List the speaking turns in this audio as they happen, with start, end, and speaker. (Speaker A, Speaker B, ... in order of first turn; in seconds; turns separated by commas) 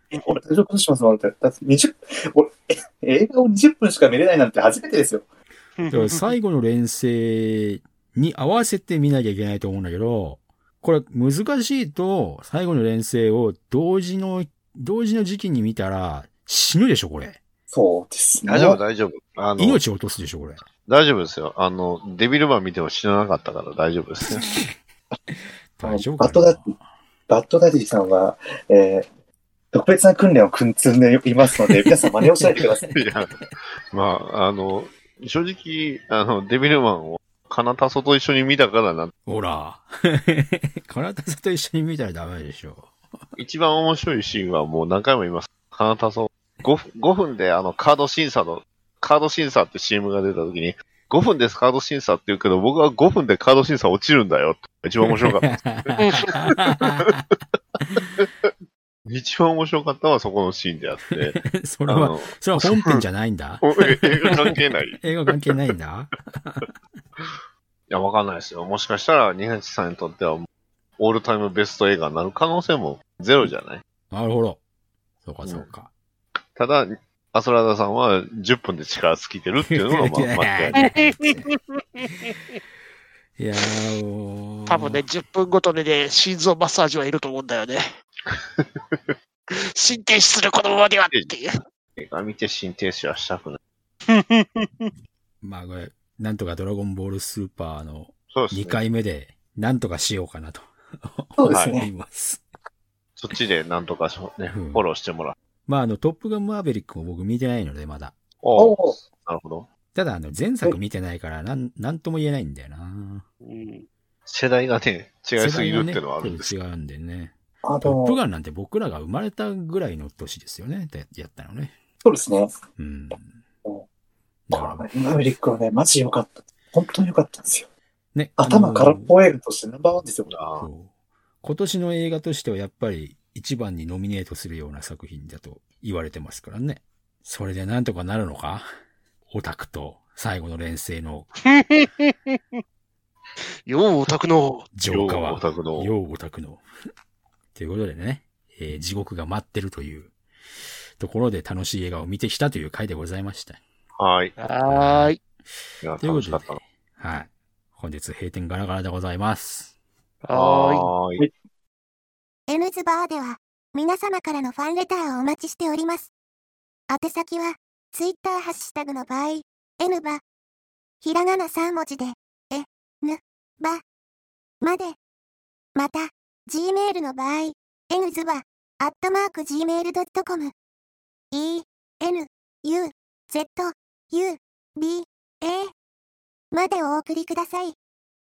Speaker A: 0.1-0.4, Speaker B: 0.2-5.2, Speaker A: 5.8-6.2, Speaker C: 5.9-17.4, Speaker B: 17.7-18.8, Speaker D: 18.5-19.8, Speaker C: 19.6-20.6, Speaker D: 20.9-24.5, Speaker C: 24.4-24.7, Speaker C: 25.8-26.8, Speaker B: 25.8-26.7, Speaker B: 27.3-29.1, Speaker B: 29.7-33.0, Speaker C: 31.7-32.6, Speaker D: 32.9-33.3, Speaker D: 33.9-39.1, Speaker C: 39.3-42.9, Speaker D: 43.4-57.1, Speaker C: 55.1-57.2, Speaker A: 56.0-56.5, Speaker C: 57.8-58.1, Speaker D: 58.0-58.5, Speaker D: 59.1-63.0, Speaker C: 61.1-66.7, Speaker D: 63.6-65.6, Speaker D: 67.9-70.5, Speaker D: 71.0-73.8, Speaker C: 74.1-74.6, Speaker C: 75.2-75.9, Speaker D: 76.5-80.8, Speaker C: 79.7-81.5, Speaker A: 80.8-82.4, Speaker C: 83.4-85.0, Speaker A: 84.7-87.8, Speaker D: 88.3-89.2, Speaker A: 89.5-91.5, Speaker D: 92.0-93.6, Speaker A: 94.1-94.9, Speaker C: 95.4-102.4, Speaker D: 98.3-98.8, Speaker B: 101.4-101.9, Speaker D: 101.5-101.8, Speaker D: 103.2-105.4, Speaker C: 104.5-104.8, Speaker C: 105.7-108.1, Speaker D: 108.4-109.7, Speaker B: 108.6-109.0, Speaker C: 109.9-113.2, Speaker A: 113.4-113.9, Speaker D: 114.3-116.5, Speaker C: 115.4-121.7, Speaker B: 117.6-118.2, Speaker B: 122.0-122.5, Speaker C: 122.8-123.3, Speaker C: 124.5-124.9, Speaker B: 124.5-127.7, Speaker C: 128.1-129.1, Speaker B: 128.4-130.3, Speaker D: 130.3-130.7, Speaker C: 130.6-130.9, Speaker C: 131.4-138.7, Speaker C: 139.3-141.3, Speaker A: 141.5-142.6, Speaker A: 143.7-144.7, Speaker C: 144.7-146.6, Speaker D: 144.9-145.9, Speaker C: 147.6-150.1, Speaker C: 151.0-153.6, Speaker D: 154.0-154.4, Speaker A: 154.4-155.2, Speaker C: 154.7-155.2, Speaker D: 155.8-156.6, Speaker C: 156.0-159.7, Speaker A: 160.2-160.9, Speaker D: 160.3-161.3, Speaker E: 162.5-166.1, Speaker E: 166.9-170.2, Speaker E: 171.0-173.8, Speaker E: 174.6-175.0, Speaker E: 175.8-180.5, Speaker E: 181.3-185.7, Speaker E: 186.5-187.8